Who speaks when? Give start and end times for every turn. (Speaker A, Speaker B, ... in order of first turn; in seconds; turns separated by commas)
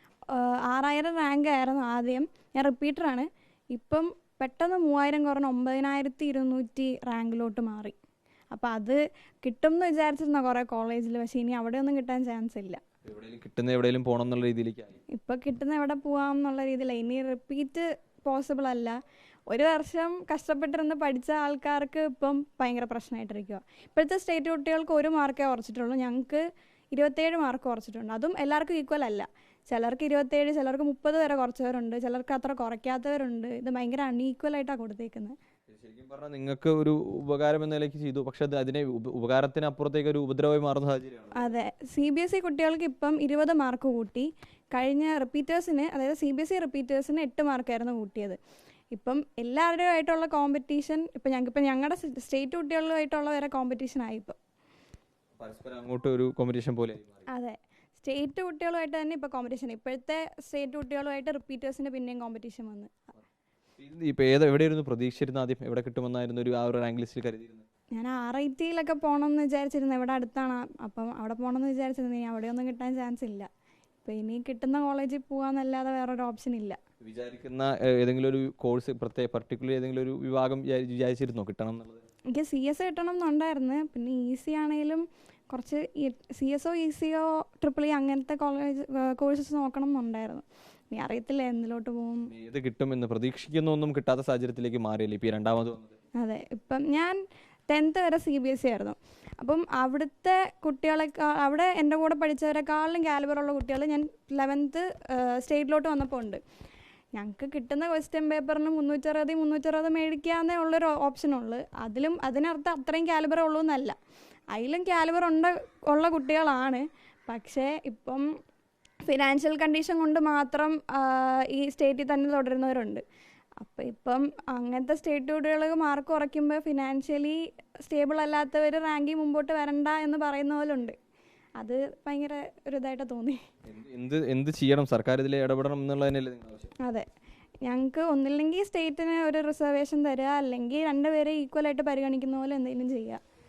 Speaker A: 0.3-8.0, Speaker A: 8.5-12.8, Speaker B: 13.1-15.0, Speaker A: 15.1-19.0, Speaker A: 19.5-35.4, Speaker B: 35.7-41.5, Speaker A: 41.4-48.4, Speaker A: 48.9-54.4, Speaker B: 55.4-57.2, Speaker A: 57.3-62.9, Speaker B: 63.8-67.7, Speaker A: 67.9-73.5, Speaker A: 74.0-76.8, Speaker B: 77.0-82.0, Speaker A: 82.3-92.3, Speaker B: 92.3-96.0, Speaker A: 96.2-97.2, Speaker A: 97.7-106.4, Speaker A: 107.2-114.0, Speaker A: 114.5-118.2, Speaker A: 119.0-123.0, Speaker A: 123.6-130.9, Speaker A: 131.6-133.4, Speaker B: 133.7-136.7, Speaker A: 137.6-143.2